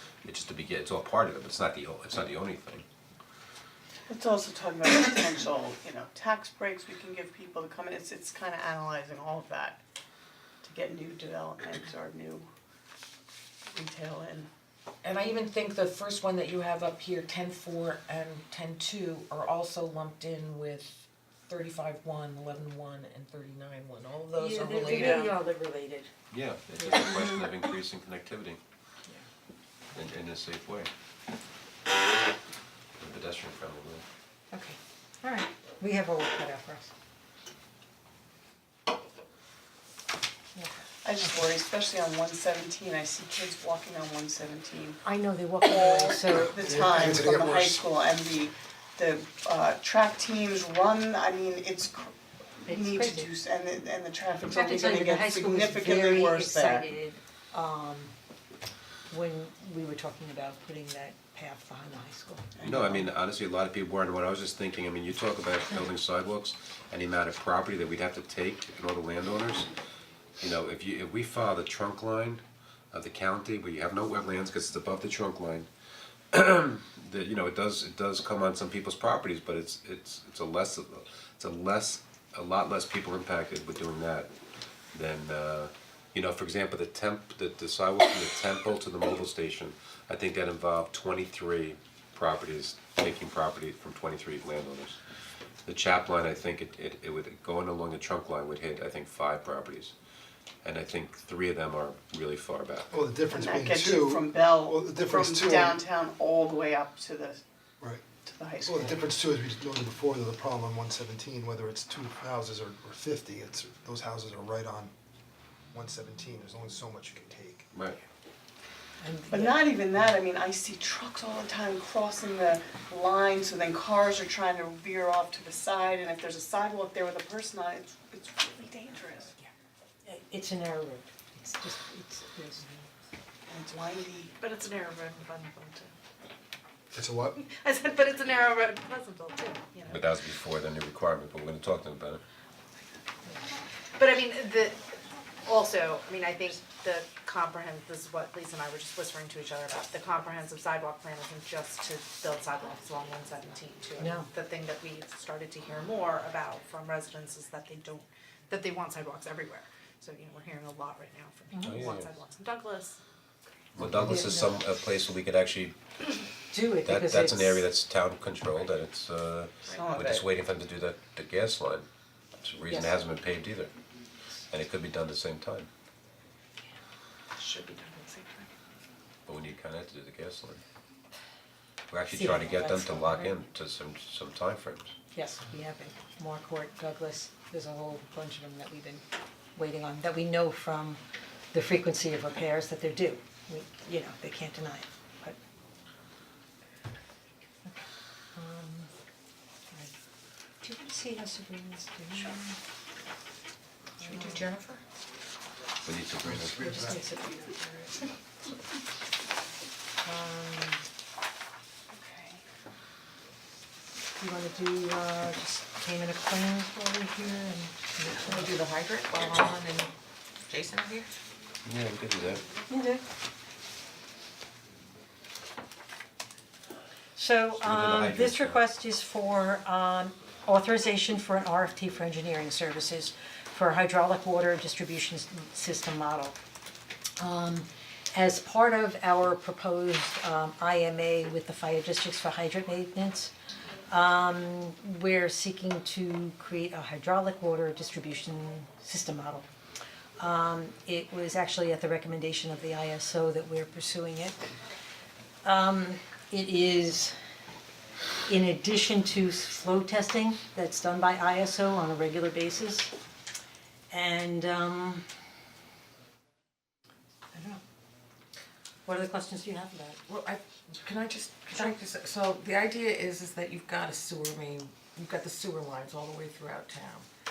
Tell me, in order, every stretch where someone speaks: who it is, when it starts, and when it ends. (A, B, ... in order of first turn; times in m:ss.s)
0:00.2-0:02.8 A
0:04.1-0:09.8 B
0:10.6-0:12.5 B
0:13.7-0:14.5 B
0:15.0-0:25.3 C
0:24.4-0:26.1 D
0:24.9-0:25.2 B
0:26.3-0:28.6 A
0:26.8-0:27.5 D
0:29.9-0:30.9 A
0:33.0-0:34.0 A
0:34.5-0:36.9 D
0:41.0-0:45.0 B
0:45.0-0:46.8 D
0:45.6-0:56.9 B
0:46.4-0:47.8 E
0:52.7-0:53.3 D
0:54.5-0:58.1 D
0:59.1-1:02.5 D
1:02.6-1:03.1 B
1:02.6-1:09.7 A
1:10.4-1:15.7 A
1:16.3-1:24.3 A
1:24.9-1:35.0 A
1:35.6-1:39.9 A
1:40.6-1:42.9 A
1:42.9-1:45.8 E
1:43.3-1:47.4 B
1:48.2-1:49.1 B
1:48.6-1:54.9 E
1:55.7-1:57.6 E
1:57.7-1:58.0 A
1:59.0-1:59.6 D
1:59.3-2:09.3 B
2:10.0-2:12.9 D
2:13.5-2:14.4 B
2:14.4-2:15.9 F
2:16.9-2:17.4 E
2:17.4-2:19.9 F
2:19.8-2:22.2 A
2:24.0-2:24.8 F
2:25.4-2:38.0 F
2:34.0-2:34.2 D
2:38.5-2:43.0 F
2:41.6-2:42.1 A
2:43.7-2:45.7 A
2:44.0-2:44.5 D
2:46.5-2:47.6 D
2:46.8-2:51.9 A
2:49.6-2:50.2 B
2:52.4-2:53.7 A
2:54.5-2:55.7 A
2:57.4-2:58.5 B
2:59.2-3:00.6 A
3:01.9-3:04.9 A
3:02.1-3:03.4 D
3:05.1-3:09.0 D
3:09.5-3:11.0 D
3:11.5-3:15.4 D
3:17.6-3:18.9 D
3:20.6-3:22.6 D
3:24.0-3:24.8 C
3:24.0-3:24.4 D
3:25.8-3:26.7 A
3:26.2-3:27.0 E
3:26.6-3:28.0 D
3:30.0-3:30.8 D
3:31.9-3:32.4 B
3:34.2-3:38.5 D
3:38.1-3:39.9 C
3:40.5-3:41.1 C
3:41.6-3:42.4 A
3:42.7-3:43.0 D
3:47.2-3:56.4 D
3:47.6-3:48.6 A
3:57.2-4:03.3 D
4:03.9-4:09.5 D
4:10.2-4:14.5 D
4:15.4-4:17.2 D
4:18.3-4:23.0 D
4:23.9-4:25.1 D
4:27.3-4:27.6 D
4:28.8-4:30.0 D
4:30.1-4:37.0 C